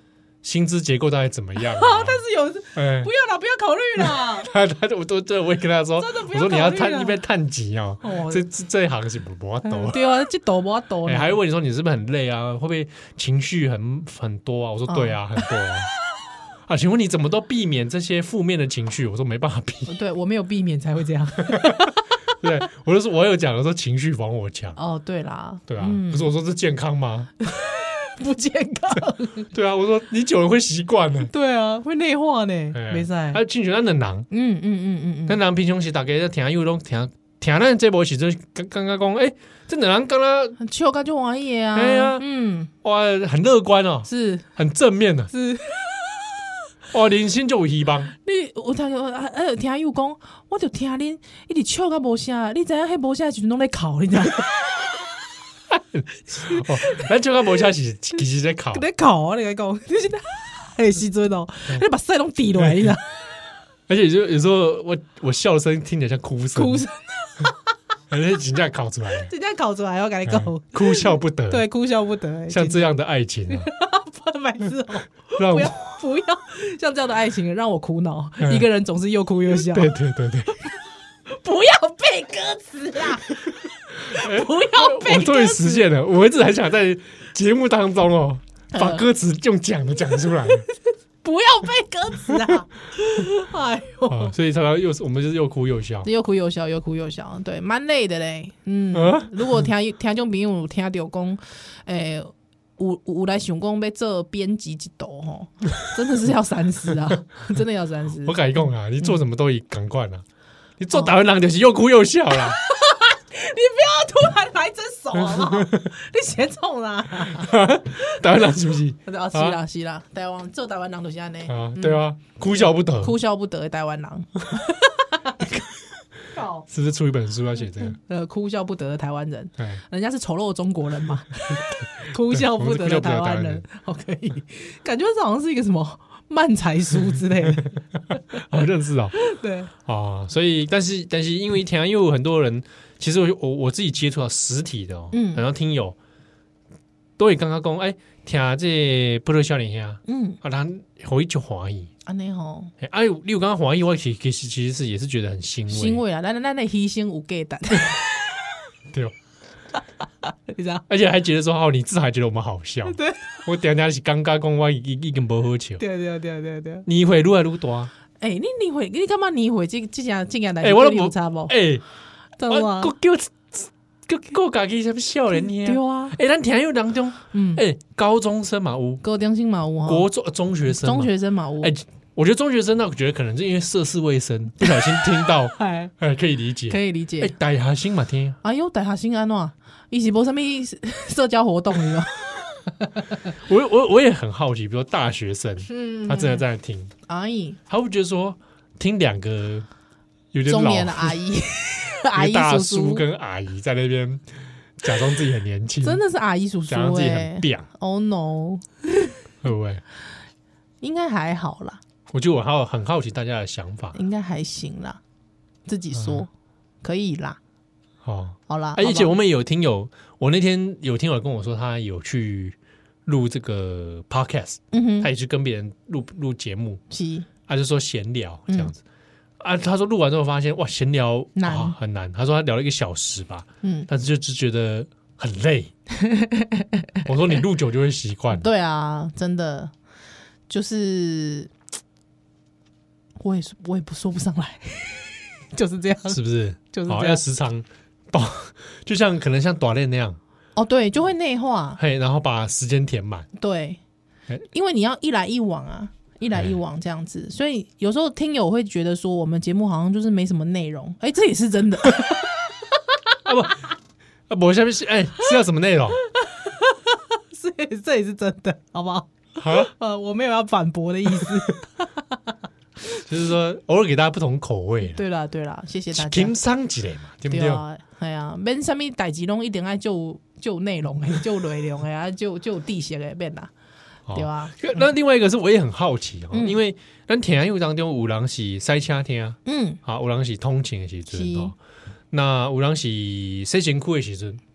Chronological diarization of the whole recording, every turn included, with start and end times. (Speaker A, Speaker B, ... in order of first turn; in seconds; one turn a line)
Speaker A: 0.4-2.2
Speaker B: 1.6-4.5
Speaker A: 2.8-3.1
Speaker A: 4.0-10.1
Speaker B: 6.0-7.2
Speaker B: 8.0-8.5
Speaker B: 9.7-11.4
Speaker A: 11.1-15.9
Speaker B: 14.9-15.2
Speaker A: 16.7-19.9
Speaker B: 19.9-22.1
Speaker A: 21.5-21.8
Speaker A: 22.4-24.8
Speaker B: 24.8-26.3
Speaker A: 25.7-27.3
Speaker B: 27.4-29.5
Speaker A: 29.5-31.3
Speaker B: 31.3-33.4
Speaker A: 32.7-34.3
Speaker B: 34.3-35.4
Speaker A: 35.3-40.6
Speaker B: 40.6-42.7
Speaker A: 41.7-42.2
Speaker A: 42.8-45.3
Speaker B: 44.1-44.5
Speaker B: 45.3-46.0
Speaker A: 46.9-48.1
Speaker B: 48.2-54.5
Speaker A: 55.7-58.9
Speaker B: 56.4-57.0
Speaker B: 58.7-63.1
Speaker A: 62.6-63.0
Speaker A: 63.9-66.9
Speaker B: 66.5-67.6
Speaker A: 68.1-69.3
Speaker B: 69.2-72.9
Speaker A: 70.3-71.7
Speaker A: 72.5-73.7
Speaker B: 73.5-79.9
Speaker A: 75.4-75.7
Speaker A: 78.4-78.7
Speaker A: 79.5-80.5
Speaker B: 81.3-85.9
Speaker A: 84.1-90.7
Speaker B: 88.7-89.1
Speaker B: 91.2-94.3
Speaker A: 94.1-96.1
Speaker B: 96.0-108.4
Speaker A: 98.9-99.7
Speaker A: 108.2-110.2
Speaker A: 110.8-112.6
Speaker B: 112.4-117.6
Speaker A: 115.3-115.9
Speaker A: 117.4-119.6
Speaker B: 119.1-122.0
Speaker A: 121.5-123.2
Speaker B: 122.6-125.5
Speaker B: 126.3-126.7
Speaker A: 126.7-128.0
Speaker B: 127.9-138.2
Speaker A: 132.3-133.6
Speaker A: 138.4-139.2
Speaker B: 139.2-139.7
Speaker A: 139.8-146.0
Speaker B: 145.1-145.4
Speaker A: 147.2-151.9
Speaker B: 150.1-150.4
Speaker B: 152.1-152.7
Speaker A: 152.8-156.0
Speaker B: 155.7-158.0
Speaker B: 160.3-160.8
Speaker A: 160.9-165.8
Speaker B: 162.8-163.3
Speaker B: 165.8-166.9
Speaker A: 166.9-167.9
Speaker B: 168.2-171.6
Speaker A: 170.6-171.8
Speaker B: 172.4-172.9
Speaker A: 172.5-179.0
Speaker B: 175.5-176.2
Speaker B: 177.3-177.6
Speaker B: 179.0-180.1
Speaker A: 179.9-188.4
Speaker B: 180.7-181.7
Speaker B: 185.6-185.9
Speaker B: 186.7-187.3
Speaker B: 188.4-193.0
Speaker A: 193.4-196.9
Speaker B: 195.7-196.4
Speaker B: 197.1-197.6
Speaker A: 197.7-199.7
Speaker A: 200.3-201.2
Speaker B: 200.5-203.1
Speaker A: 202.1-206.0
Speaker B: 205.8-209.1
Speaker A: 206.7-207.7
Speaker A: 209.4-209.8
Speaker B: 210.8-211.8
Speaker A: 212.1-214.0
Speaker B: 213.9-215.0
Speaker B: 215.7-216.3
Speaker A: 215.9-216.3
Speaker B: 216.8-217.4
Speaker A: 218.0-226.8
Speaker B: 218.5-219.1
Speaker B: 224.7-225.1
Speaker B: 226.9-227.3
Speaker A: 227.5-228.8
Speaker A: 229.4-235.7
Speaker B: 231.4-231.8
Speaker B: 233.6-233.9
Speaker B: 236.0-236.8
Speaker A: 237.1-238.5
Speaker B: 238.3-239.7
Speaker B: 240.5-241.5
Speaker B: 243.2-247.2
Speaker A: 246.1-250.2
Speaker B: 250.6-251.8
Speaker A: 251.8-253.3
Speaker B: 253.4-253.8
Speaker B: 254.4-262.2
Speaker A: 263.2-263.6
Speaker A: 264.3-266.0
Speaker B: 266.2-271.9
Speaker A: 269.4-269.7
Speaker A: 273.1-275.0
Speaker B: 274.9-276.4
Speaker A: 275.9-277.6
Speaker B: 277.3-283.5
Speaker A: 284.1-291.6
Speaker B: 284.1-284.8
Speaker B: 286.3-286.6
Speaker B: 289.4-289.8
Speaker B: 291.1-291.5
Speaker A: 292.1-294.4